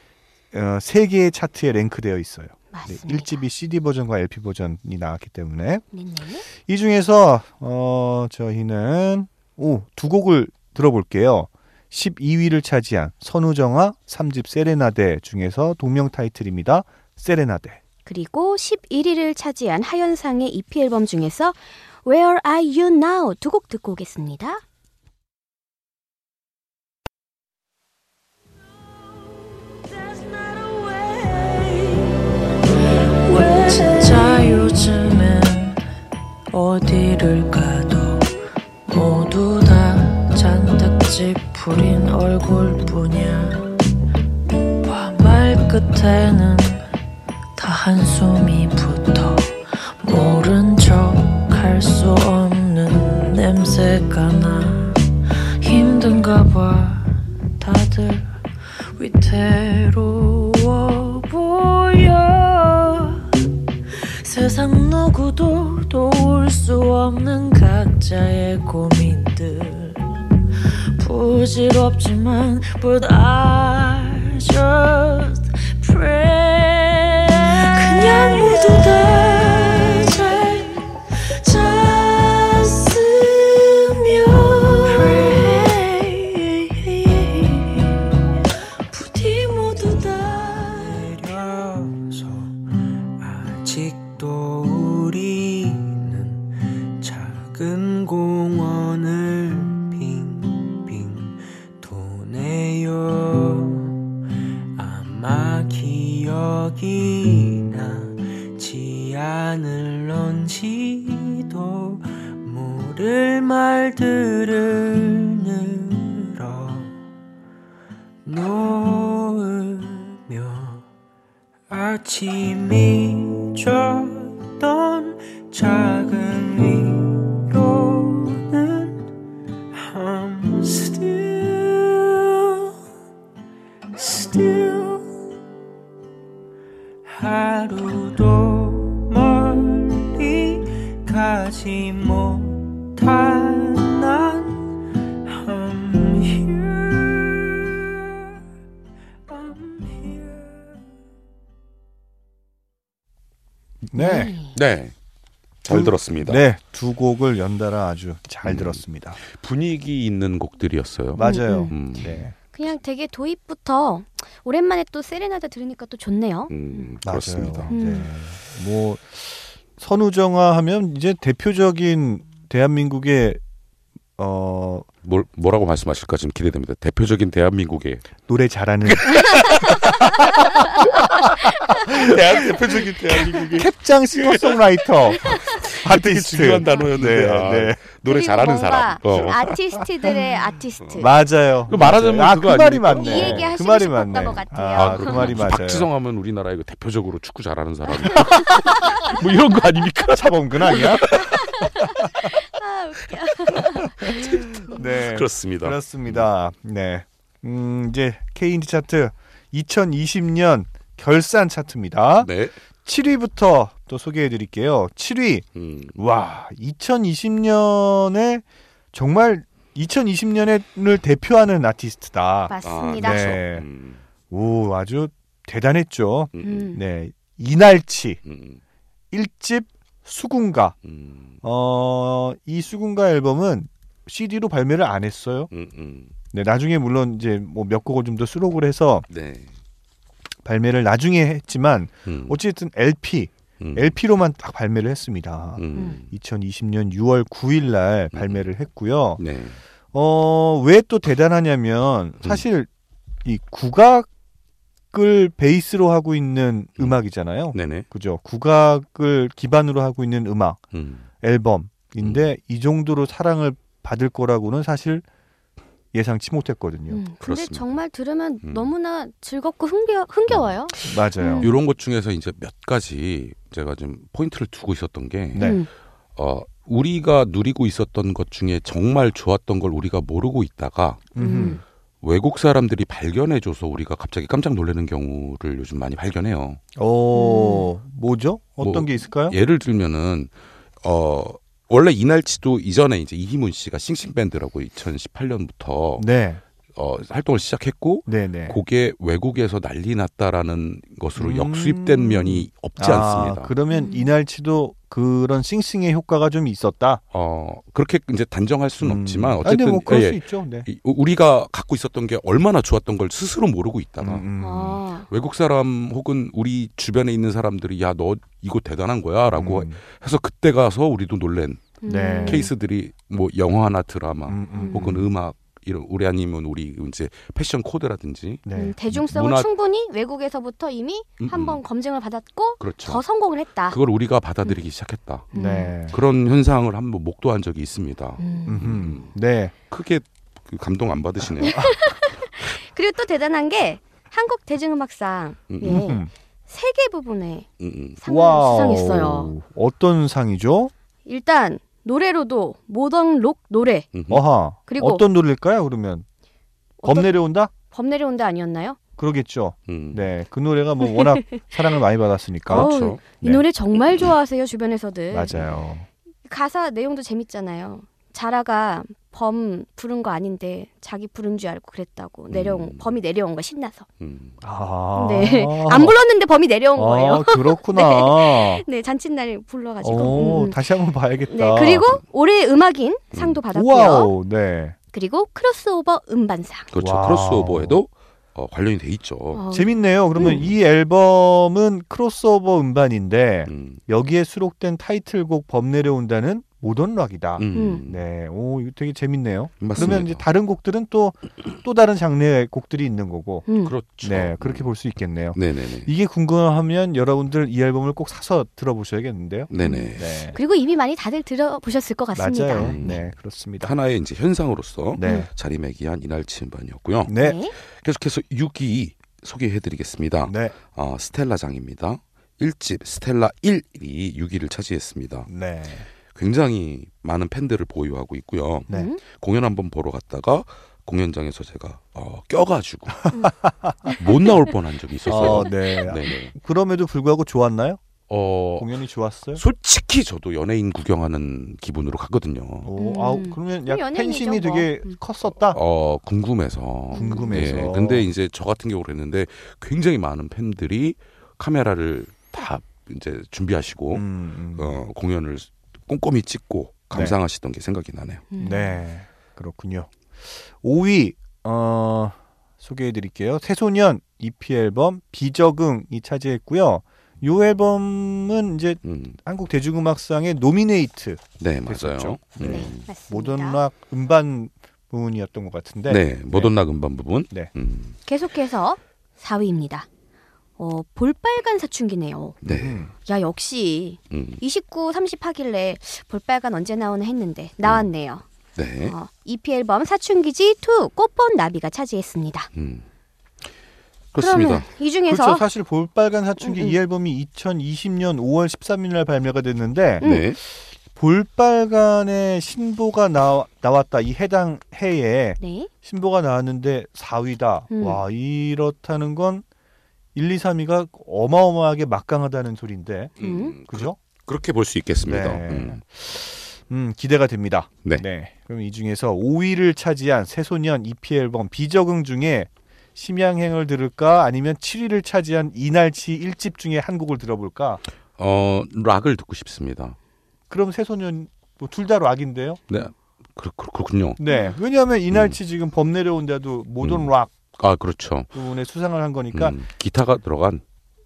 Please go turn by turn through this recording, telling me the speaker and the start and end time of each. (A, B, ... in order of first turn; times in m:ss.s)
0:00.5-0:05.8 A
0:02.7-0:03.4 B
0:05.9-0:06.4 B
0:06.5-0:17.8 A
0:18.0-0:24.6 B
0:29.9-0:35.8 C
0:36.5-0:38.3 C
0:38.9-0:43.8 C
0:44.8-0:46.8 C
0:47.6-0:58.4 C
0:59.0-1:10.0 C
1:11.0-1:31.0 C
1:30.6-1:32.6 D
1:33.2-1:44.0 D
1:44.7-1:57.0 D
1:58.2-2:00.9 D
2:01.7-2:09.1 D
2:09.7-2:12.7 D
2:14.0-2:15.1 D
2:17.0-2:28.4 D
2:29.3-2:30.8 D
2:33.8-2:34.3 A
2:33.9-2:34.6 B
2:34.5-2:34.9 E
2:35.6-2:36.4 E
2:35.7-2:39.2 A
2:38.4-2:42.2 E
2:41.1-2:42.3 A
2:41.2-2:41.7 B
2:42.5-2:46.9 B
2:46.5-2:47.7 E
2:47.0-2:53.4 A
2:47.7-2:48.1 B
2:54.2-2:54.9 A
2:55.0-2:58.1 E
2:58.2-3:02.9 A
2:58.9-3:09.8 E
3:03.4-3:07.8 A
3:06.6-3:06.9 B
3:08.0-3:11.1 B
3:10.8-3:11.0 E
3:11.0-3:15.9 A
3:11.7-3:13.5 E
3:13.0-3:15.3 B
3:14.2-3:21.9 E
3:18.1-3:18.9 A
3:20.0-3:21.4 A
3:21.1-3:24.8 B
3:23.5-3:26.2 E
3:24.7-3:32.3 A
3:32.2-3:32.6 E
3:32.8-3:43.6 A
3:35.5-3:36.0 E
3:42.5-3:43.3 B
3:42.6-3:44.0 E
3:44.3-3:48.2 A
3:46.3-3:46.7 E
3:46.4-3:46.8 B
3:48.2-3:48.6 E
3:49.1-3:50.8 A
3:50.8-3:51.4 E
3:51.4-3:55.5 A
3:55.5-3:56.1 E
3:56.3-3:59.0 A
3:59.1-3:59.5 E
4:00.4-4:09.2 A
4:02.0-4:02.4 E
4:03.6-4:04.0 E
4:05.6-4:06.1 E
4:08.1-4:08.4 E
4:09.2-4:09.6 E
4:09.9-4:12.7 A
4:13.2-4:14.1 A
4:14.9-4:20.6 A
4:17.5-4:17.8 E
4:20.7-4:21.1 E
4:21.2-4:25.0 A
4:22.0-4:22.3 E
4:25.9-4:27.0 A
4:26.9-4:31.5 B
4:27.2-4:27.7 E
4:28.4-4:28.7 E
4:30.3-4:30.5 E
4:30.8-4:31.5 A
4:31.4-4:35.6 E
4:35.3-4:35.6 A
4:35.4-4:35.7 B
4:36.2-4:41.1 E
4:41.1-4:41.6 A
4:41.2-4:41.6 B
4:42.0-4:46.6 E
4:46.8-4:49.4 A
4:47.1-4:47.7 B
4:48.6-4:56.1 E
4:56.0-4:56.4 A
4:56.7-5:03.5 E
4:58.1-4:58.6 A
5:01.2-5:07.0 A
5:03.7-5:04.1 B
5:07.1-5:14.2 E
5:08.8-5:10.7 A
5:14.0-5:14.8 A
5:14.4-5:15.1 B
5:15.1-5:29.5 E
5:19.3-5:19.8 A
5:21.8-5:22.5 B
5:21.8-5:22.5 A
5:24.3-5:25.1 A
5:24.5-5:24.8 B
5:28.4-5:28.8 A
5:28.5-5:33.8 B
5:31.2-5:31.6 E
5:32.6-5:33.0 E
5:33.7-5:35.3 E
5:35.3-5:35.8 B
5:35.3-5:36.0 A
5:35.9-5:39.1 E
5:38.2-5:38.6 B
5:38.5-5:39.5 A
5:39.7-5:41.8 E
5:41.4-5:41.8 A
5:41.4-5:47.5 B
5:45.5-5:45.9 E
5:45.6-5:46.1 A
5:47.6-5:48.0 E
5:48.0-5:49.3 B
5:48.0-5:50.7 A
5:51.0-5:53.9 B
5:53.9-5:54.2 E
5:54.1-5:56.0 A
5:54.7-5:55.0 B
5:56.8-5:57.1 B
5:56.8-5:57.5 A
5:57.6-5:58.8 B
5:59.0-6:03.4 A
5:59.7-6:00.1 E
6:02.5-6:03.0 E
6:02.5-6:05.3 B
6:05.1-6:05.9 A
6:06.2-6:13.9 B
6:12.3-6:13.0 E
6:14.0-6:14.4 E
6:14.4-6:16.0 A
6:15.0-6:20.6 B
6:16.7-6:18.6 A
6:19.8-6:22.0 A
6:21.3-6:24.1 B
6:23.1-6:23.4 E
6:23.5-6:24.8 A
6:24.9-6:26.7 B
6:26.7-6:29.4 E
6:26.8-6:27.8 A
6:29.3-6:30.4 B
6:29.5-6:43.5 A
6:30.2-6:30.5 E
6:33.5-6:33.8 E
6:37.4-6:38.0 E
6:37.5-6:37.8 B
6:39.6-6:40.2 E
6:43.5-6:43.7 B
6:43.6-6:44.7 E
6:44.0-6:50.4 A
6:45.3-6:45.9 E
6:49.5-6:50.3 E
6:49.6-6:52.8 B
6:52.2-6:53.7 A
6:52.6-6:53.0 E
6:53.6-7:05.3 E
6:55.0-6:55.3 A
6:55.0-6:55.3 B
6:57.0-6:57.4 A
6:57.2-6:57.5 B
7:00.2-7:00.6 A
7:05.3-7:05.9 A
7:06.1-7:13.1 E
7:08.7-7:09.0 B
7:13.2-7:13.9 A
7:14.0-7:16.3 E
7:15.0-7:17.8 A
7:18.1-7:18.7 E
7:18.6-7:19.4 A
7:19.4-7:22.7 E
7:22.6-7:25.6 A
7:22.8-7:25.0 B
7:25.4-7:38.3 E
7:26.9-7:27.6 B
7:26.9-7:28.1 A
7:33.9-7:34.8 A
7:38.3-7:38.8 B
7:38.4-7:56.5 A
7:48.8-7:49.2 E
7:51.4-7:52.8 E
7:52.4-7:53.6 B
7:55.9-7:58.0 E
7:58.0-7:59.9 B
8:00.6-8:02.3 B
8:02.4-8:02.8 E
8:02.4-8:02.9 A
8:03.0-8:08.2 B
8:04.1-8:04.4 E
8:08.6-8:08.9 E
8:08.8-8:12.5 B
8:12.5-8:12.8 E
8:14.1-8:14.6 E
8:14.2-8:15.4 B
8:15.1-8:29.4 A
8:16.4-8:16.8 B
8:20.0-8:20.2 B
8:20.0-8:20.4 E
8:25.4-8:25.7 B
8:27.7-8:28.0 B
8:30.1-8:33.1 A
8:33.2-8:35.8 E
8:33.2-8:33.5 B
8:33.7-8:34.0 A
8:35.0-8:47.8 A
8:48.2-8:50.0 E
8:50.5-8:52.6 A
8:52.7-8:54.2 E
8:54.2-8:57.3 A
8:54.2-8:54.5 B
8:55.1-8:55.4 E
8:56.8-8:58.3 E
8:58.3-8:59.6 A
8:59.3-9:00.6 E